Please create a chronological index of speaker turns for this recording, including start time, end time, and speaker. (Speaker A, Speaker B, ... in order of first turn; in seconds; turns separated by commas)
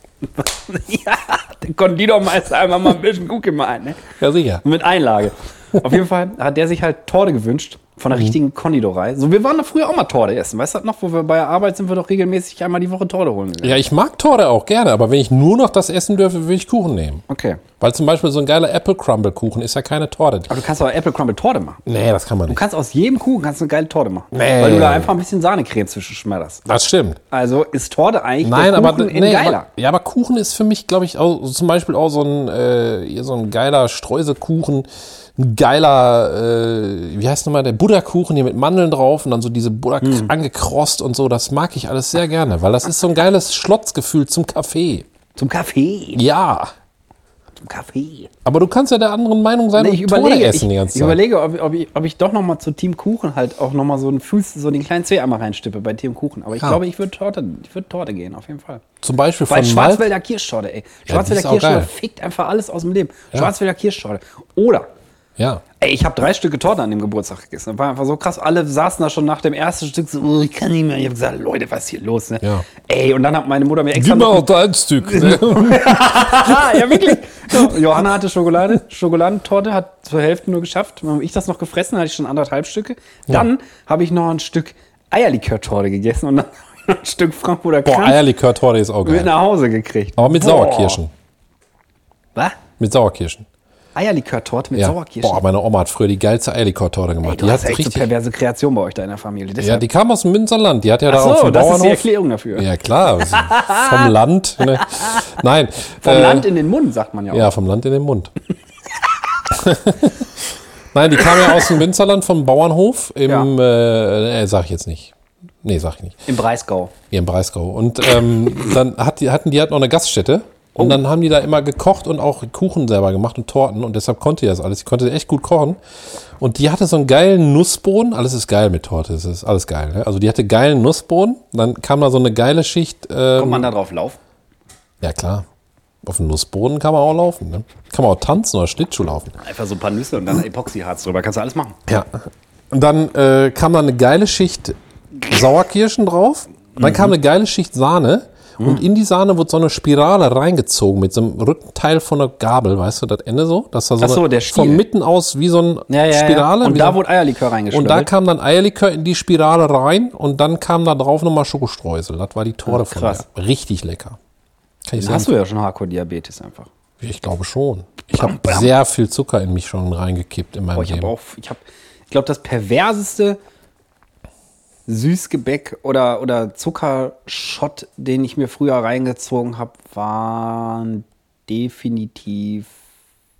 Speaker A: 0.2-4.0, Speaker B: 4.2-4.6, Speaker A: 4.6-13.8, Speaker B: 13.6-17.2, Speaker A: 17.3-17.6, Speaker B: 17.8-20.6, Speaker A: 20.5-21.8, Speaker B: 21.9-22.6, Speaker A: 22.5-26.7, Speaker B: 24.3-25.1, Speaker B: 26.7-27.2, Speaker A: 27.3-29.7, Speaker B: 28.4-45.1, Speaker A: 40.0-40.3, Speaker A: 45.4-46.2, Speaker B: 46.1-46.7, Speaker A: 47.6-48.3, Speaker B: 48.5-51.2, Speaker A: 49.8-58.8, Speaker B: 59.0-60.1, Speaker A: 59.5-64.9, Speaker B: 61.1-61.9, Speaker B: 65.4-65.6, Speaker A: 65.8-88.2, Speaker B: 73.9-77.8, Speaker B: 87.8-89.3, Speaker A: 89.0-91.0, Speaker B: 90.2-91.1, Speaker B: 92.8-93.5, Speaker A: 94.0-95.4, Speaker B: 94.7-98.1, Speaker A: 97.2-99.8, Speaker B: 99.6-106.5, Speaker A: 101.1-102.7, Speaker A: 103.2-104.1, Speaker A: 104.8-105.3, Speaker A: 106.0-107.5, Speaker B: 107.3-108.3, Speaker B: 109.5-116.2, Speaker A: 116.3-116.9, Speaker B: 117.1-125.8, Speaker B: 126.4-133.7, Speaker A: 133.4-134.2, Speaker B: 135.0-135.4, Speaker B: 136.0-139.3, Speaker A: 139.4-141.8, Speaker B: 141.9-144.8, Speaker B: 145.3-157.0, Speaker A: 146.8-147.1, Speaker A: 148.6-148.8, Speaker A: 154.0-154.8, Speaker A: 155.9-158.1, Speaker B: 157.7-164.2, Speaker A: 162.7-163.2, Speaker B: 164.9-165.3, Speaker A: 165.0-166.7, Speaker B: 167.0-171.1, Speaker A: 168.1-168.7, Speaker A: 170.7-173.4, Speaker A: 174.9-182.7